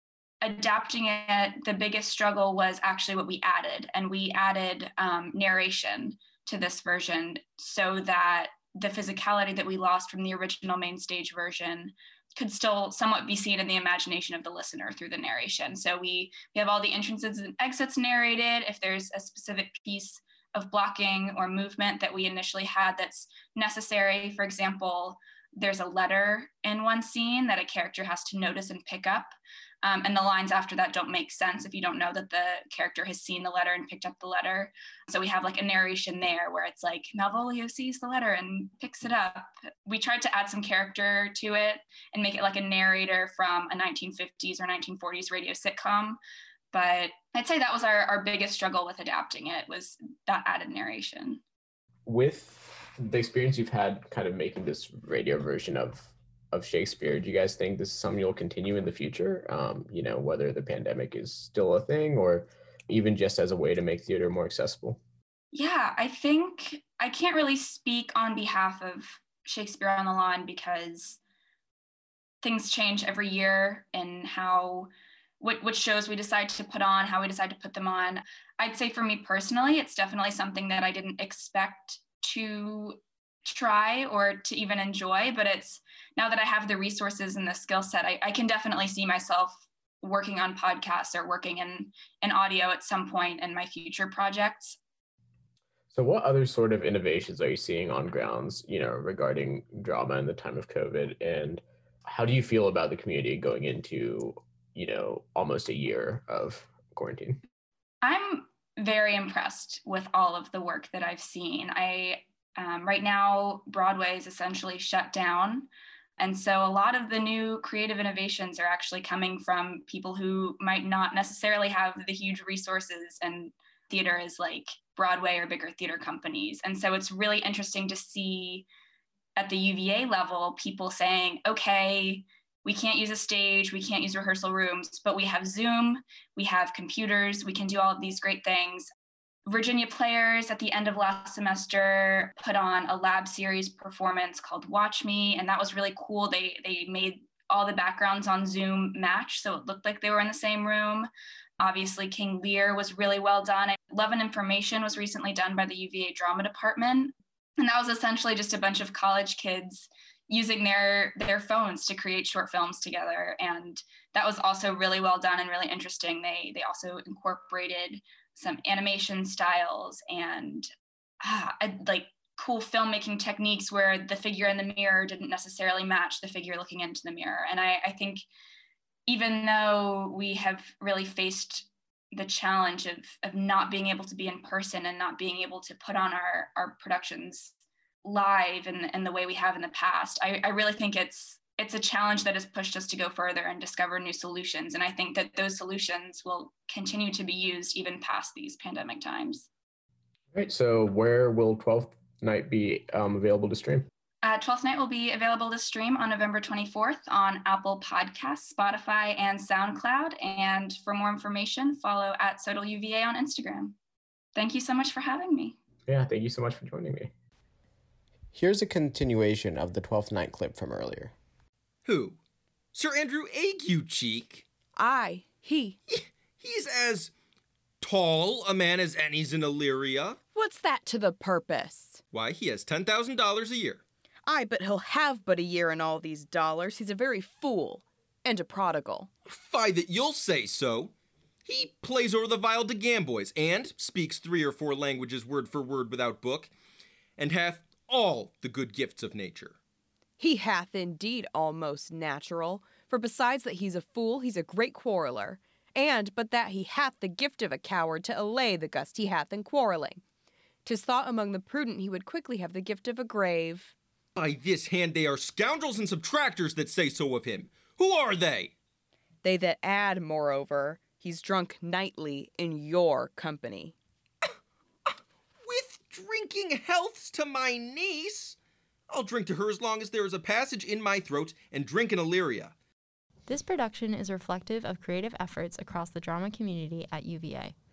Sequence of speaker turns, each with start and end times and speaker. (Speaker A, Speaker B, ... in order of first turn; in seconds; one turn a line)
Speaker A: 0.4-46.2
Speaker A: 46.7-51.4
Speaker B: 52.1-65.0
Speaker A: 65.5-71.2
Speaker A: 72.4-94.8
Speaker B: 95.9-107.4
Speaker A: 108.0-115.7
Speaker A: 116.2-128.7
Speaker A: 129.4-138.9
Speaker A: 139.5-151.1
Speaker A: 151.6-170.7
Speaker A: 171.2-178.2
Speaker A: 179.1-199.5
Speaker B: 200.3-203.9
Speaker A: 204.2-213.8
Speaker A: 214.3-215.6
Speaker B: 215.9-217.1
Speaker C: 218.3-221.1
Speaker D: 221.8-222.2
Speaker D: 222.7-224.5
Speaker E: 224.7-225.8
Speaker D: 225.9-227.1
Speaker D: 227.8-230.2
Speaker E: 230.3-232.0
Speaker D: 232.1-233.8
Speaker E: 234.2-239.1
Speaker D: 239.3-240.9
Speaker D: 241.4-246.5
Speaker D: 247.2-249.6
Speaker E: 250.2-260.0
Speaker E: 260.6-263.8
Speaker D: 264.1-268.5
Speaker E: 269.2-273.8
Speaker D: 275.4-278.4
Speaker D: 278.9-282.6
Speaker F: 283.3-287.6